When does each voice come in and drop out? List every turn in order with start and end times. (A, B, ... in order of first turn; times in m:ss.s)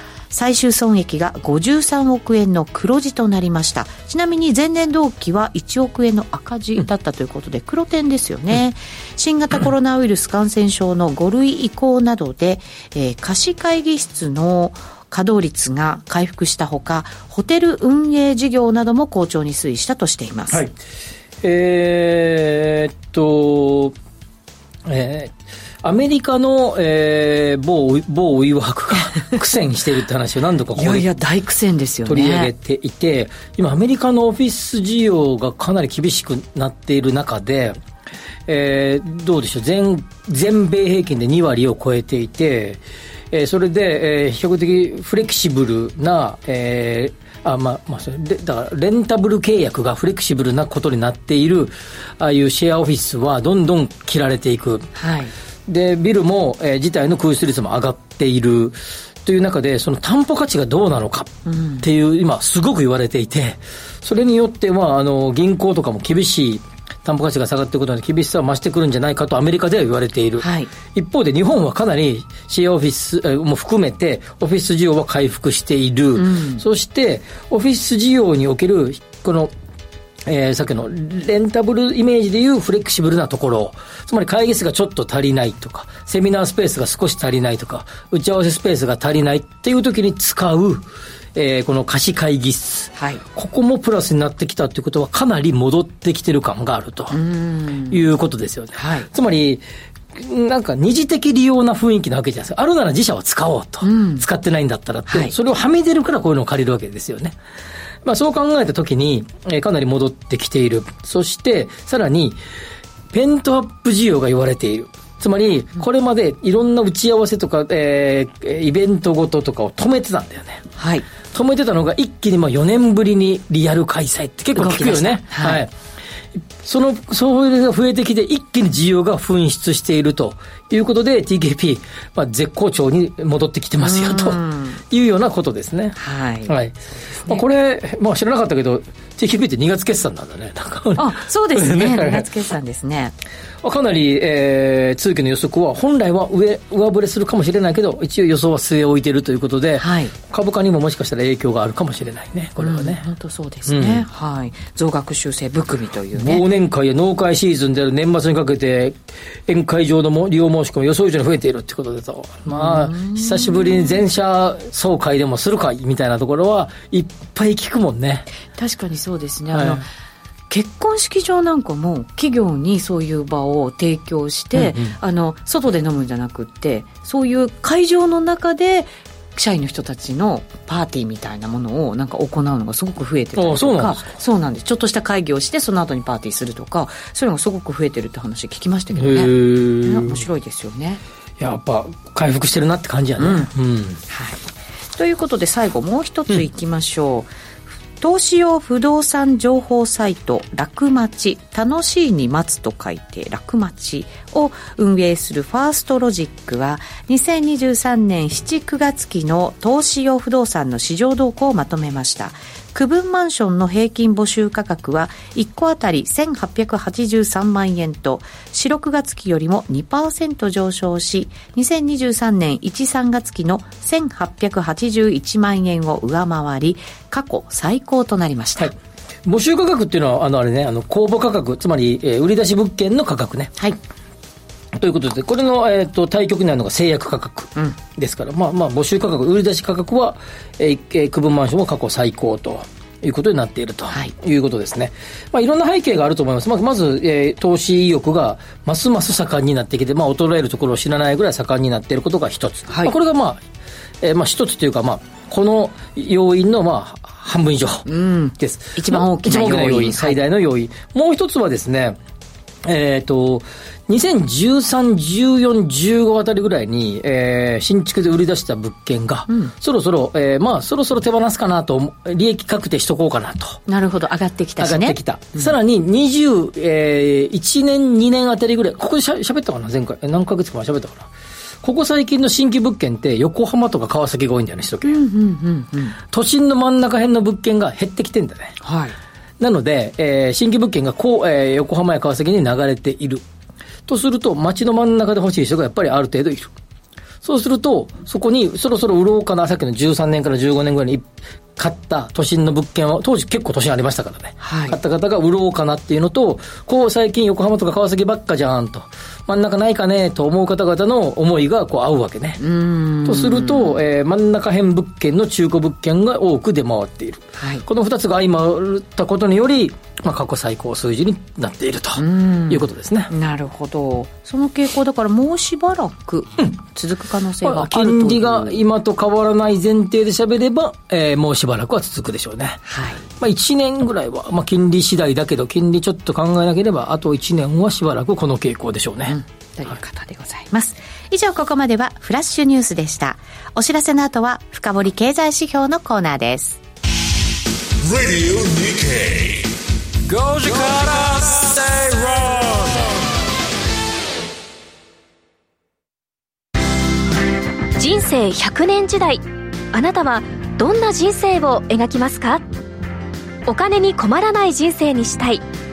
0:00.3-0:20.6 A
0:21.4-0:24.0 B
0:24.9-0:31.1 B
0:30.8-0:32.5 A
0:32.0-0:37.8 B
0:38.5-0:54.9 B
0:55.0-0:55.3 A
0:55.7-1:19.5 B
1:01.5-1:01.9 A
1:10.4-1:10.7 A
1:16.2-1:16.6 A
1:20.2-1:37.2 B
1:33.0-1:33.2 A
1:37.1-1:38.0 A
1:37.9-1:39.6 B
1:38.8-1:39.1 A
1:40.1-1:47.4 B
1:43.8-1:44.2 A
1:45.1-1:45.3 A
1:48.0-1:52.4 B
1:53.1-2:00.7 B
2:00.8-2:01.1 A
2:01.3-2:05.7 B
2:04.6-2:05.6 A
2:06.4-2:22.3 B
2:13.8-2:14.8 A
2:16.0-2:16.5 A
2:21.0-2:23.1 A
2:23.6-2:33.0 B
2:29.8-2:30.1 A
2:32.6-2:36.4 A
2:33.7-2:34.1 B
2:36.1-2:48.3 B
2:42.5-2:44.0 A
2:48.6-2:49.9 A
2:49.5-2:49.8 B
2:50.5-3:11.0 A
2:54.5-2:55.0 B
3:03.4-3:04.1 B
3:08.9-3:10.2 B
3:11.4-3:14.0 B
3:13.2-3:13.5 A
3:14.1-3:14.4 A
3:15.0-3:17.3 A
3:18.0-3:48.7 A
3:49.2-3:53.6 B
3:54.7-4:13.4 B
4:12.7-4:13.0 A
4:14.0-4:17.9 B
4:17.9-4:20.2 A
4:18.4-4:22.0 B
4:22.6-4:33.6 B
4:33.7-4:35.5 A
4:34.6-4:41.1 B
4:41.6-4:45.0 B
4:44.8-4:46.0 A
4:46.1-4:48.6 B
4:48.6-4:49.0 A
4:49.4-4:53.2 B
4:53.9-4:56.5 B
4:57.2-5:12.4 B
5:04.4-5:04.8 A
5:12.4-5:13.8 A
5:13.0-5:23.1 B
5:17.4-5:17.6 A
5:22.0-5:28.6 A
5:27.4-5:32.6 B
5:32.7-5:33.0 A
5:33.2-5:39.2 B
5:39.1-5:46.6 A
5:47.8-5:49.5 C
5:50.1-5:53.0 C
5:57.8-5:59.2 D
5:59.7-6:02.4 D
6:03.5-6:05.4 D